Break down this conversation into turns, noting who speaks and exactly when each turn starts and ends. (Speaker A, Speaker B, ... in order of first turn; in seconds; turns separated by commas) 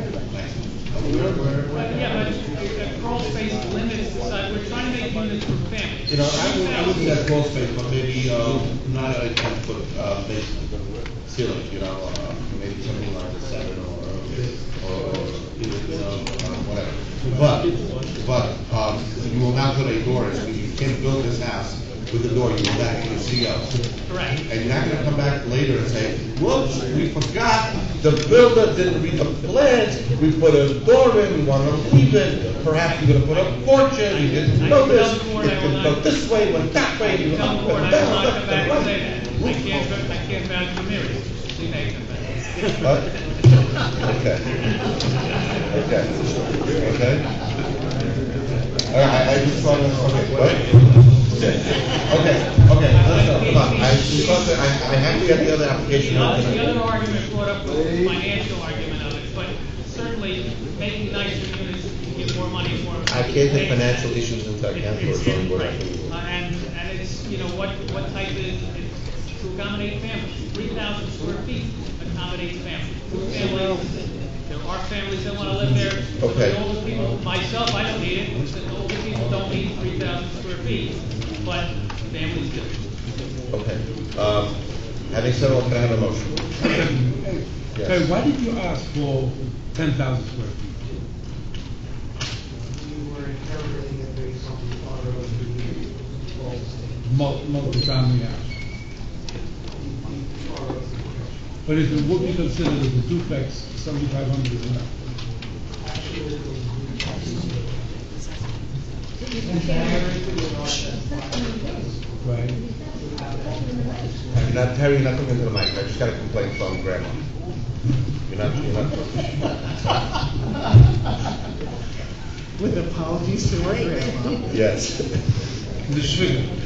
Speaker A: 0.3-1.9, Speaker B: 1.8-7.2, Speaker A: 6.1-10.7, Speaker A: 11.2-23.7, Speaker B: 24.1-24.4, Speaker A: 24.5-39.6, Speaker B: 32.9-36.0, Speaker B: 37.0-43.2, Speaker A: 42.8-43.1, Speaker A: 44.0-44.5, Speaker A: 45.7-47.3, Speaker A: 48.9-50.7, Speaker A: 51.3-56.7, Speaker B: 52.9-54.6, Speaker B: 55.9-82.8, Speaker A: 63.1-66.1, Speaker C: 75.6-76.0, Speaker A: 76.2-76.6, Speaker A: 83.5-84.6, Speaker A: 85.1-86.5, Speaker C: 86.6-90.8, Speaker A: 87.7-88.0, Speaker D: 92.7-97.0, Speaker C: 97.0-98.5, Speaker D: 99.7-101.5, Speaker C: 101.7-104.9, Speaker D: 105.8-108.1, Speaker D: 109.4-114.5, Speaker C: 112.2-112.6, Speaker A: 114.3-117.2, Speaker A: 118.3-119.7, Speaker D: 122.6-124.5, Speaker A: 124.5-125.3, Speaker C: 125.8-126.5